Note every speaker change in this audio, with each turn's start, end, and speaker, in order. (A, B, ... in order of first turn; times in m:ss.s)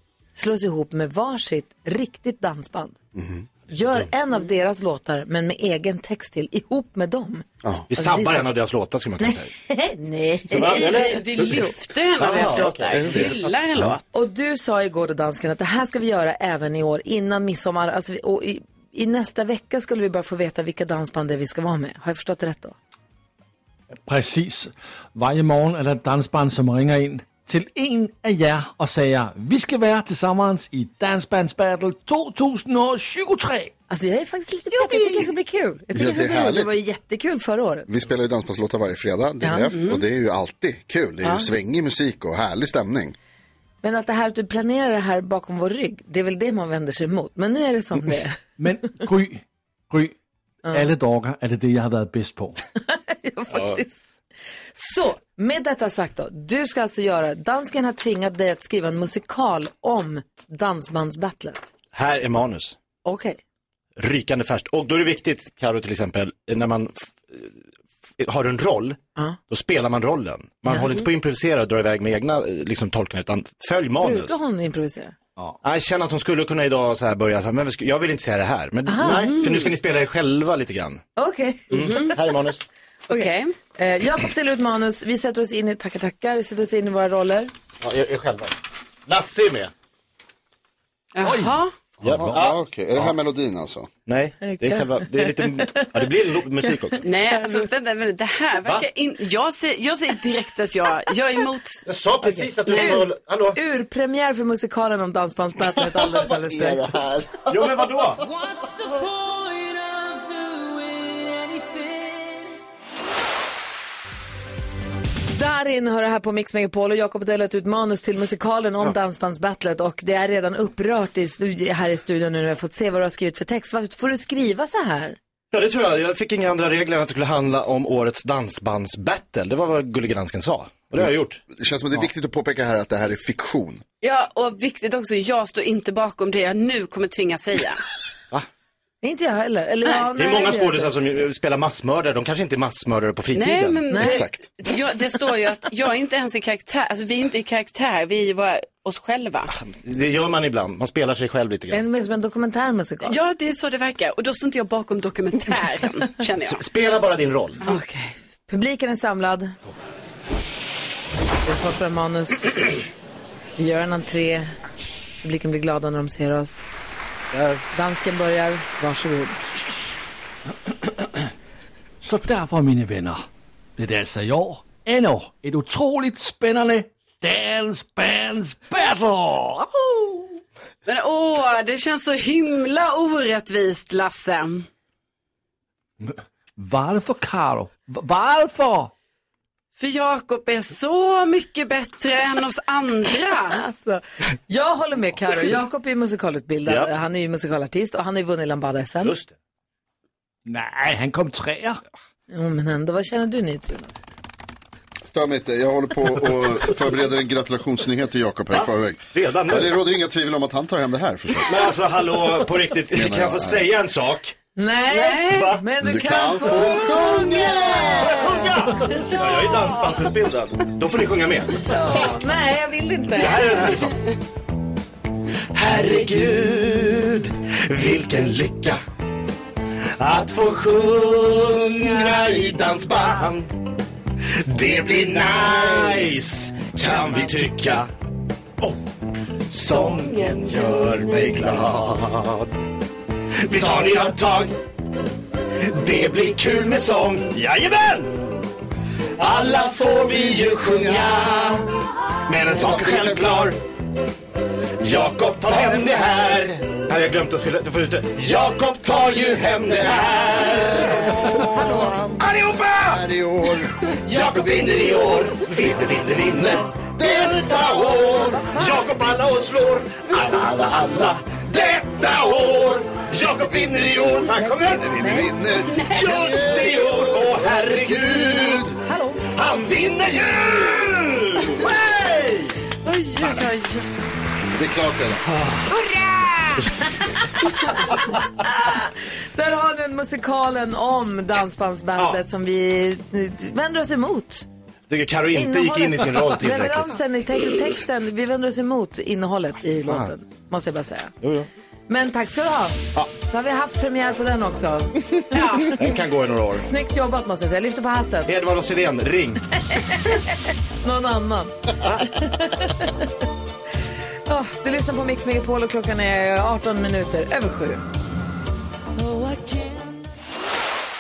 0:00.3-0:03.0 A
0:03.1-0:03.5 B
0:03.7-0:08.5 A
0:07.9-0:09.5 C
0:09.2-0:11.7 A
0:10.5-0:13.5 C
0:10.6-0:14.2 D
0:12.9-0:14.0 B
0:14.1-0:22.7 A
0:24.0-0:33.7 E
0:33.9-0:37.9 A
0:35.9-0:36.8 B
0:37.9-0:43.1 B
0:39.4-0:39.7 A
0:39.7-0:40.0 D
0:41.2-0:41.5 A
0:43.8-0:48.4 A
0:48.6-0:50.1 E
0:50.7-0:52.6 E
0:52.8-0:54.0 A
0:53.5-0:53.8 C
0:54.8-1:01.7 A
1:01.9-1:02.8 C
1:03.0-1:03.4 A
1:04.0-1:07.6 C
1:08.2-1:14.4 C
1:14.0-1:15.2 A
1:15.6-1:21.0 C
1:18.9-1:19.4 A
1:19.0-1:19.7 D
1:21.2-1:22.1 A
1:21.7-1:22.6 C
1:21.7-1:22.1 D
1:23.1-1:27.5 A
1:23.1-1:23.5 D
1:27.8-1:29.7 C
1:31.1-1:31.7 D
1:31.2-1:31.6 E
1:32.0-1:33.9 B
1:32.0-1:33.1 C
1:34.0-1:37.1 C
1:34.4-1:35.9 A
1:37.0-1:42.9 D
1:37.3-1:37.6 A
1:41.8-1:43.6 C
1:42.7-1:47.0 A
1:45.8-1:47.6 B
1:47.5-1:48.3 C
1:55.3-2:05.2 A
2:05.5-2:11.4 C
2:11.0-2:13.8 B
2:14.0-2:17.9 D
2:19.0-2:20.9 A
2:20.1-2:23.8 C
2:23.3-2:29.5 D
2:23.9-2:24.2 A
2:24.0-2:24.4 B
2:29.5-2:31.8 C
2:31.7-2:33.2 A
2:33.0-2:36.6 D
2:36.4-2:37.6 C
2:37.6-2:39.5 A
2:41.4-2:42.8 A
2:43.6-2:44.5 A
2:45.2-2:46.6 A
2:47.3-2:47.6 C
2:47.7-2:49.4 A
2:50.7-2:51.3 E
2:52.0-2:53.2 E
2:53.8-3:00.2 E
3:00.8-3:04.6 D
3:06.0-3:08.9 E
3:09.8-3:13.6 D
3:13.5-3:19.1 A
3:16.6-3:16.9 C
3:19.0-3:19.3 C
3:20.5-3:21.8 E
3:22.3-3:24.0 A
3:25.0-3:31.7 B
3:28.5-3:29.8 C
3:31.4-3:34.4 C
3:32.9-3:33.7 B
3:34.6-3:37.9 A
3:34.9-3:35.5 D
3:35.3-3:35.6 C
3:35.8-3:38.2 B
3:36.5-3:42.1 C
3:41.6-3:43.7 A
3:43.1-3:44.0 C
3:45.5-3:48.8 C
3:50.0-3:53.5 C
3:54.4-3:57.9 C
3:59.5-4:02.5 C
4:03.4-4:04.5 C
4:05.6-4:08.2 C
4:09.2-4:11.7 C
4:12.3-4:13.6 C
4:12.5-4:13.2 B
4:14.8-4:23.0 C
4:20.4-4:22.3 B
4:22.8-4:23.8 B
4:24.0-4:34.9 C
4:24.3-4:24.8 B
4:27.0-4:28.2 B
4:28.2-4:28.8 A
4:34.4-4:35.3 A
4:34.5-4:38.8 B
4:35.6-4:36.2 D
4:35.8-4:38.7 C
4:38.9-4:39.2 A
4:39.3-4:42.6 C
4:42.8-4:43.9 D
4:44.5-4:45.3 B
4:45.3-4:45.8 C
4:46.4-4:47.0 C
4:47.9-4:54.4 A
4:54.9-4:57.0 C
4:55.3-5:01.1 A
4:59.8-5:00.1 C
5:01.2-5:01.5 C
5:01.9-5:05.4 A
5:05.3-5:05.7 D
5:05.7-5:06.7 C
5:06.5-5:08.3 A
5:08.2-5:09.4 C
5:09.7-5:13.1 A
5:14.3-5:17.8 A